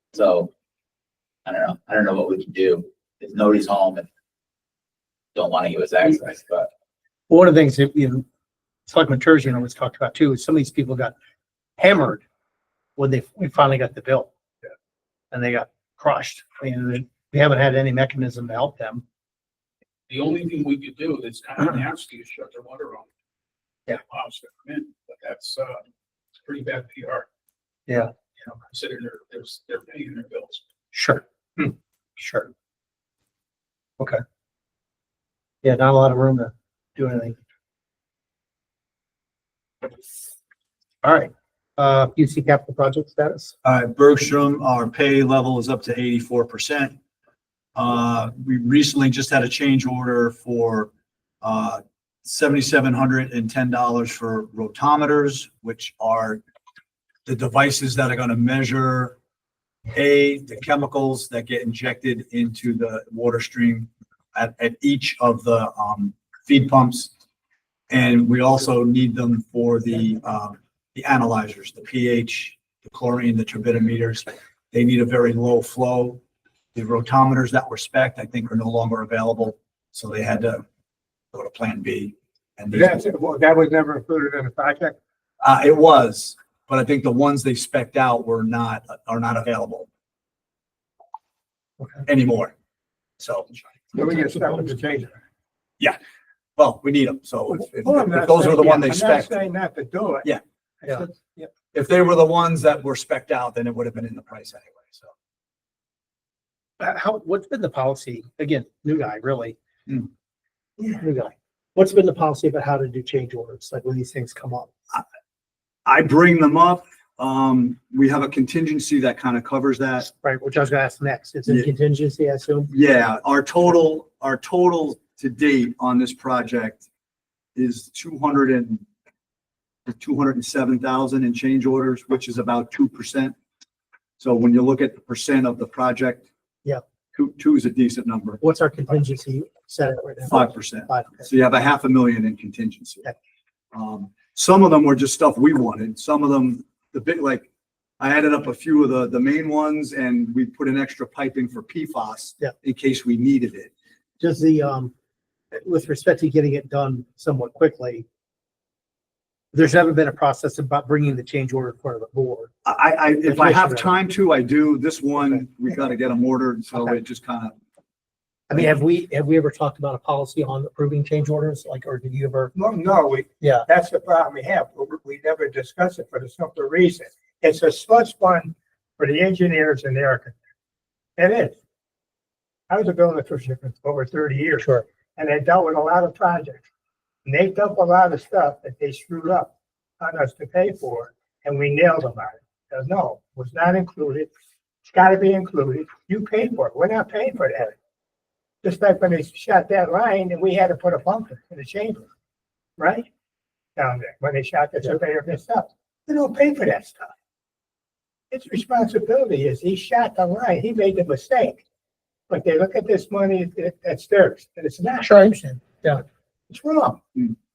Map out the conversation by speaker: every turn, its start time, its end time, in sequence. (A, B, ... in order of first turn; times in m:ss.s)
0:00.1-0:00.5 A
0:01.4-0:04.1 A
0:05.3-0:06.7 A
0:07.3-0:08.2 B
0:08.9-0:11.1 B
0:11.8-0:12.2 B
0:13.0-0:14.3 B
0:15.3-0:19.0 B
0:20.1-0:23.1 C
0:23.9-0:25.8 C
0:26.4-0:27.2 C
0:27.9-0:28.1 B
0:28.7-0:30.6 C
0:30.9-0:32.5 B
0:35.6-0:37.4 B
0:41.0-0:43.5 B
0:43.6-0:47.0 D
0:47.8-0:50.9 D
0:51.4-0:56.4 D
0:57.2-0:59.2 D
0:59.9-1:07.1 D
1:07.9-1:16.2 D
1:16.7-1:20.6 D
1:21.3-1:23.0 D
1:22.8-1:25.0 E
1:25.4-1:29.9 D
1:32.0-1:32.5 D
1:33.2-1:33.6 D
1:34.0-1:35.2 E
1:36.6-1:39.3 D
1:37.8-1:40.2 E
1:40.8-1:41.5 E
1:41.7-1:45.1 D
1:46.8-1:49.6 B
1:50.9-1:54.7 B
1:55.8-2:00.1 D
2:00.0-2:02.7 B
2:02.7-2:06.8 D
2:07.6-2:08.8 D
2:09.9-2:13.4 D
2:14.2-2:16.3 D
2:17.1-2:18.4 D
2:18.4-2:21.3 B
2:20.3-2:23.0 D
2:23.7-2:27.5 D
2:28.0-2:33.7 D
2:34.2-2:34.9 B
2:35.5-2:38.0 B
2:39.5-2:42.5 B
2:42.6-2:47.5 D
2:43.2-2:43.9 B
2:48.5-2:52.5 B
2:52.6-3:00.3 E
2:53.4-2:53.7 B
3:01.2-3:01.5 E
3:02.7-3:04.6 E
3:04.6-3:04.8 B
3:05.2-3:06.6 E
3:07.2-3:09.5 E
3:10.0-3:14.3 E
3:14.9-3:17.7 E
3:18.6-3:22.0 E
3:22.8-3:23.0 E
3:23.8-3:27.1 E
3:28.3-3:31.6 E
3:32.3-3:35.0 E
3:35.0-3:36.0 B
3:36.5-3:37.0 E